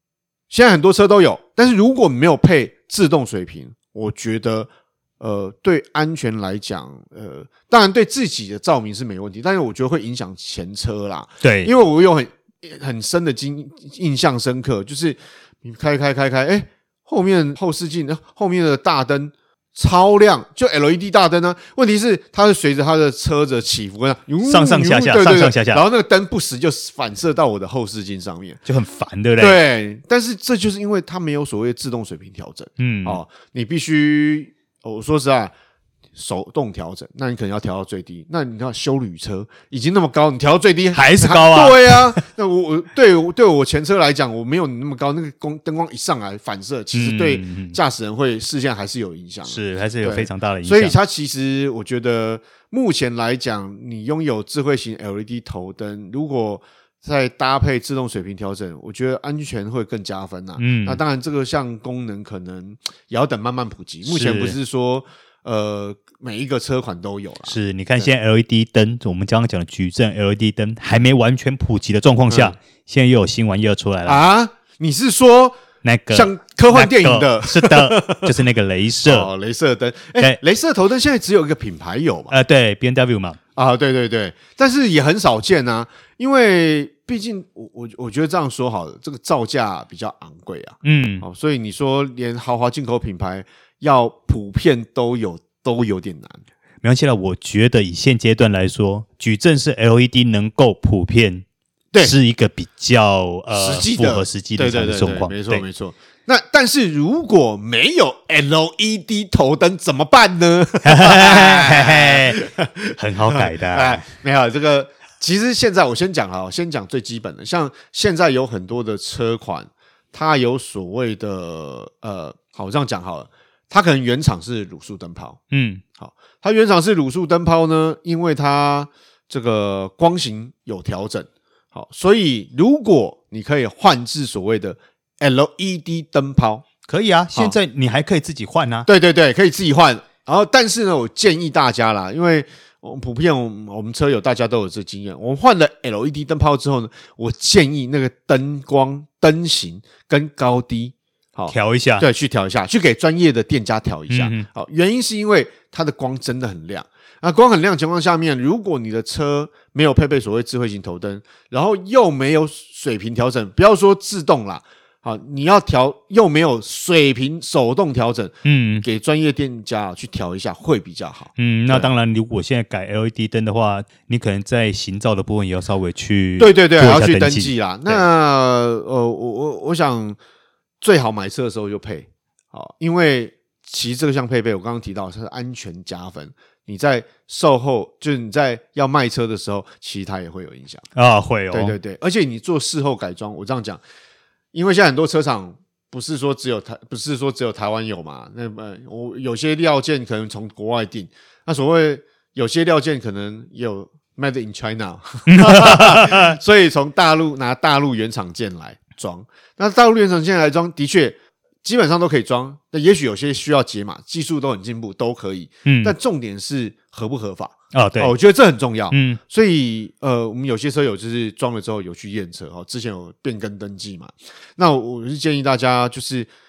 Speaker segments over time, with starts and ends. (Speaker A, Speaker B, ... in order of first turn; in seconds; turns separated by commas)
Speaker A: 0.5-4.7, Speaker A: 5.2-28.6, Speaker B: 11.4-11.7, Speaker B: 24.4-25.8, Speaker B: 28.6-29.6, Speaker A: 29.4-35.5, Speaker B: 32.8-33.2, Speaker A: 36.1-68.1, Speaker B: 40.9-42.1, Speaker B: 46.9-47.8, Speaker B: 49.5-50.9, Speaker B: 60.6-61.0, Speaker B: 64.0-64.5, Speaker B: 67.5-74.2, Speaker A: 72.3-72.6, Speaker A: 74.0-75.6, Speaker B: 75.8-79.3, Speaker A: 76.1-78.3, Speaker A: 79.0-82.3, Speaker B: 82.3-83.4, Speaker A: 83.5-96.4, Speaker B: 90.8-91.2, Speaker B: 96.8-101.4, Speaker B: 102.0-105.6, Speaker A: 103.5-125.4, Speaker B: 110.8-112.4, Speaker B: 113.0-114.0, Speaker B: 125.5-125.8, Speaker A: 126.0-136.6, Speaker B: 136.9-138.9, Speaker A: 138.8-171.9, Speaker B: 151.5-152.1, Speaker B: 154.1-154.4, Speaker B: 168.4-168.8, Speaker B: 171.4-178.0, Speaker A: 176.4-180.2, Speaker A: 180.8-190.8, Speaker B: 190.9-191.7, Speaker A: 191.5-193.8, Speaker A: 194.5-226.3, Speaker B: 205.3-206.4, Speaker B: 215.6-215.9, Speaker B: 217.7-218.1, Speaker B: 218.9-219.2